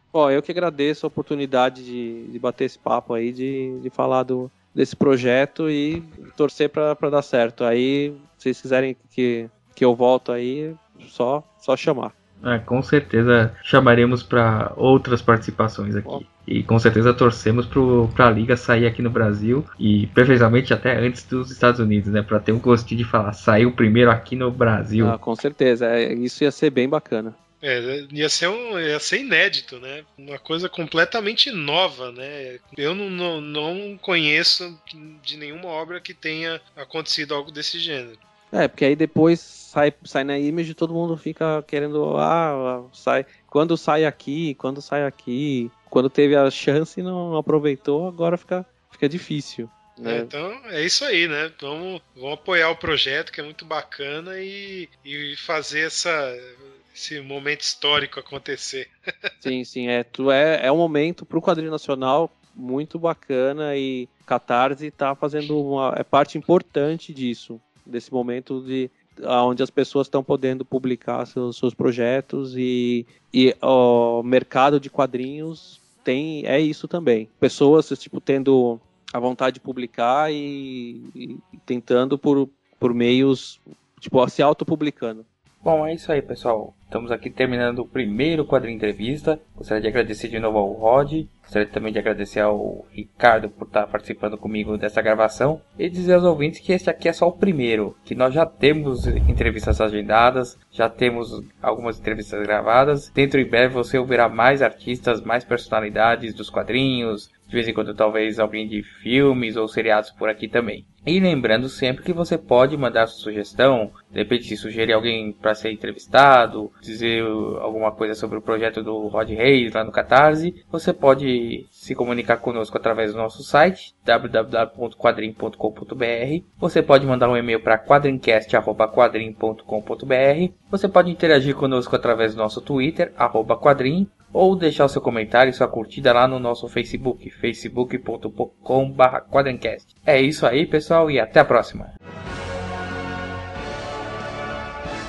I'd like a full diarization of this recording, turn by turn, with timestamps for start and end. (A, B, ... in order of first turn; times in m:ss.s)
0:00.1-0:12.1 A
0:12.4-0:25.2 B
0:25.0-0:27.4 A
0:27.6-0:38.2 C
0:38.5-0:50.3 A
0:50.0-0:59.3 C
0:59.4-1:25.3 A
1:25.6-2:21.9 B